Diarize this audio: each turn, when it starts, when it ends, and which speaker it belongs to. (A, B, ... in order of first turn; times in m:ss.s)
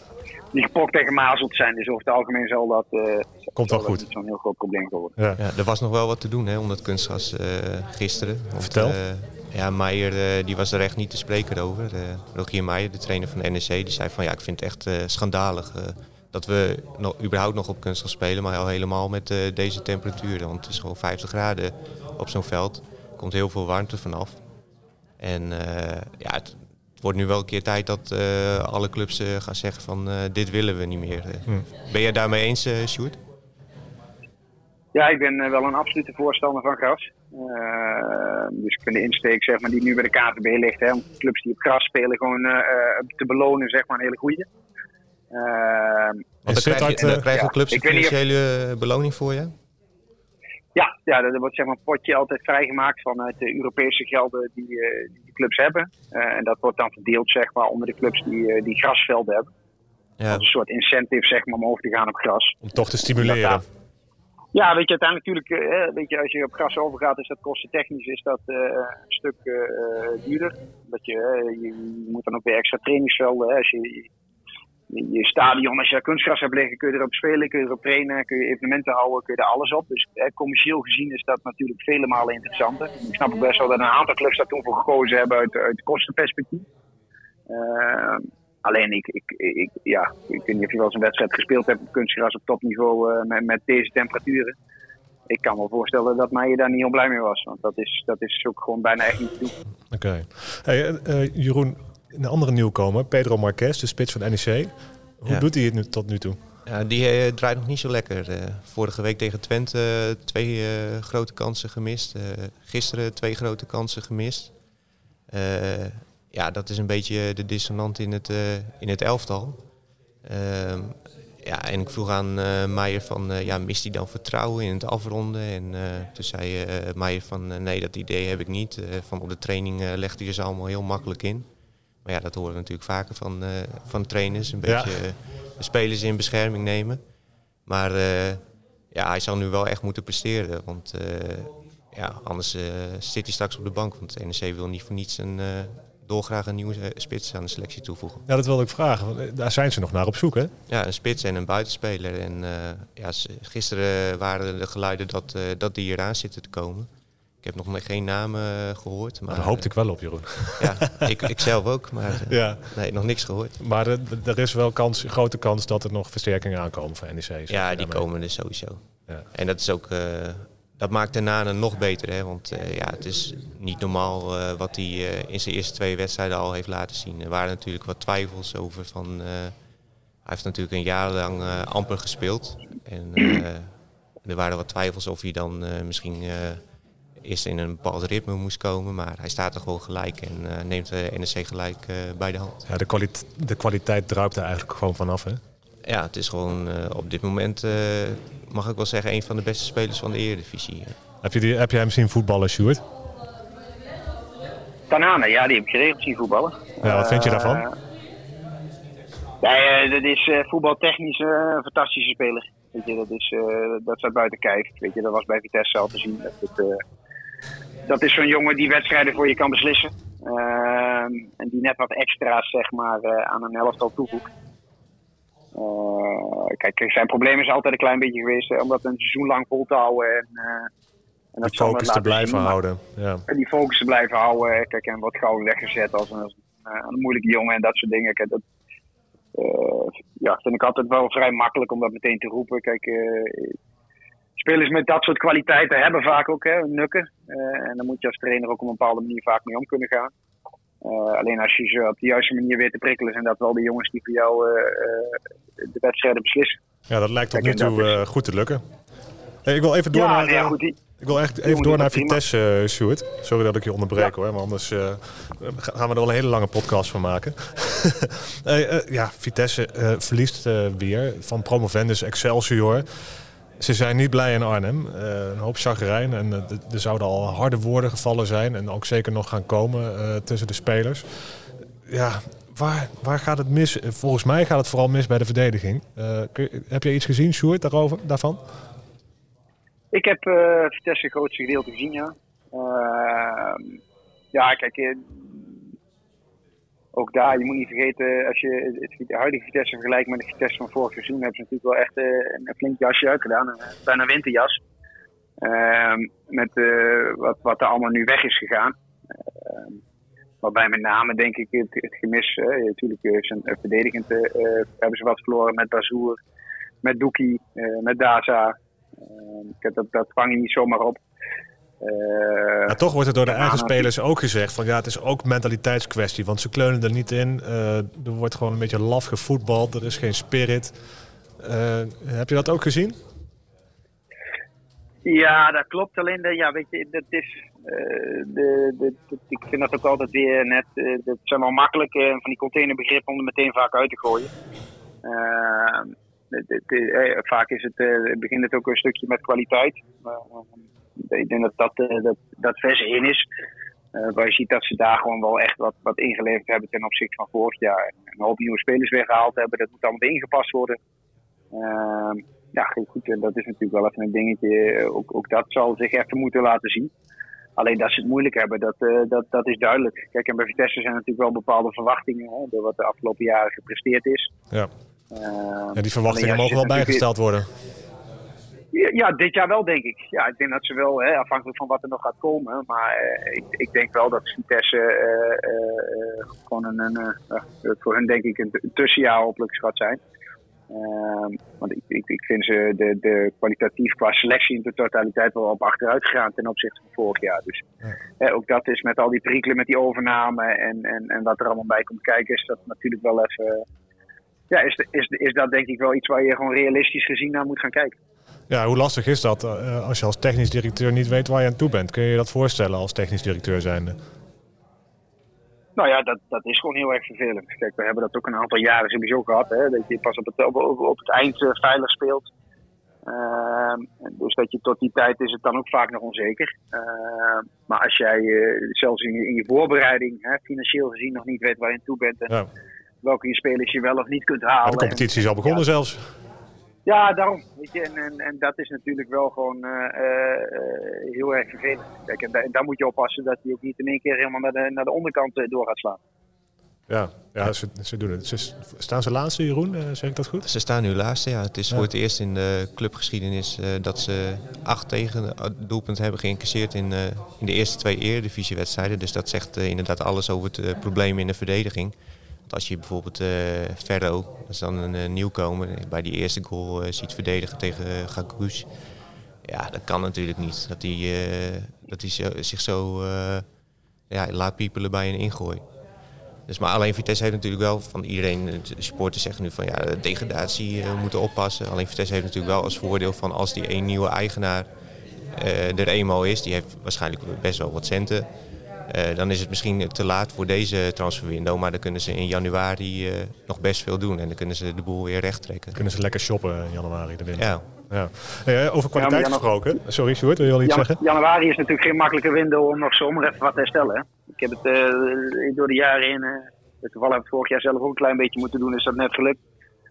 0:00.5-0:05.1 A
0:03.6-0:04.0 B
0:05.4-0:24.4 C
0:08.6-0:09.0 B
0:25.2-0:33.2 C
0:34.9-0:44.5 A
0:45.3-0:46.3 A
0:46.4-0:47.2 B
0:46.4-0:49.5 C
0:46.9-0:48.2 A
0:50.7-0:59.5 A
1:00.2-1:00.4 C
1:00.3-1:02.6 A
1:02.6-1:03.6 B
1:03.1-1:03.6 A
1:04.5-1:14.1 A
1:14.9-1:26.6 A
1:27.5-1:34.5 A
1:35.3-1:39.5 A
1:39.9-1:46.4 B
1:46.6-1:54.5 C
1:55.3-1:59.6 C
2:00.2-2:11.5 C
2:12.0-2:17.0 C
2:14.6-2:15.0 B
2:17.7-2:18.4 C
2:18.9-2:28.2 C
2:28.3-2:30.5 B
2:30.7-2:36.9 C
2:37.4-2:39.7 C
2:39.3-2:41.3 B
2:40.6-2:43.6 C
2:42.3-2:42.7 B
2:43.6-2:48.0 B
2:47.5-2:48.8 C
2:49.3-2:59.5 C
3:00.2-3:03.7 C
3:04.2-3:06.6 C
3:07.2-3:12.6 C
3:12.7-3:15.4 B
3:15.8-3:21.0 C
3:21.2-3:22.8 B
3:24.9-3:27.8 A
3:26.8-3:27.7 B
3:29.4-3:36.8 A
3:37.8-3:44.3 A
3:45.5-3:50.7 A
3:51.3-3:52.6 A
3:51.4-3:53.2 B
3:53.3-3:58.4 A
3:59.3-4:03.6 A
4:04.4-4:10.1 A
4:10.8-4:16.6 A
4:16.9-4:18.6 B
4:17.3-4:18.0 A
4:19.4-4:33.1 B
4:19.9-4:20.8 A
4:21.4-4:22.2 A
4:33.6-4:48.4 B
4:49.9-4:53.7 A
4:54.3-4:55.6 A
4:56.9-5:04.6 A
5:05.4-5:08.7 A
5:09.4-5:09.8 A
5:10.4-5:16.2 A
5:16.8-5:21.0 A
5:21.8-5:22.8 A
5:22.7-5:30.8 B
5:23.3-5:23.8 A
5:31.4-5:33.0 B
5:35.0-5:44.3 A
5:45.0-5:53.2 A
5:53.9-6:00.8 A
6:01.5-6:06.9 A
6:07.6-6:14.3 A
6:15.1-6:17.0 A
6:15.7-6:17.5 B
6:18.7-6:30.0 A
6:30.7-6:37.6 A
6:38.2-6:43.6 A
6:44.5-6:48.0 A
6:48.5-6:54.0 B
6:55.8-7:02.3 A
7:03.0-7:12.3 A
7:13.0-7:15.6 A
7:14.6-7:16.0 B
7:16.8-7:26.0 A
7:26.9-7:30.5 B
7:30.4-7:41.9 C
7:42.5-7:48.7 C
7:49.4-7:53.4 C
7:54.1-7:55.6 C
7:56.5-8:04.7 C
8:05.3-8:08.2 C
8:08.9-8:15.8 C
8:15.7-8:21.0 B
8:17.4-8:17.6 C
8:19.0-8:19.8 A
8:20.6-8:29.4 A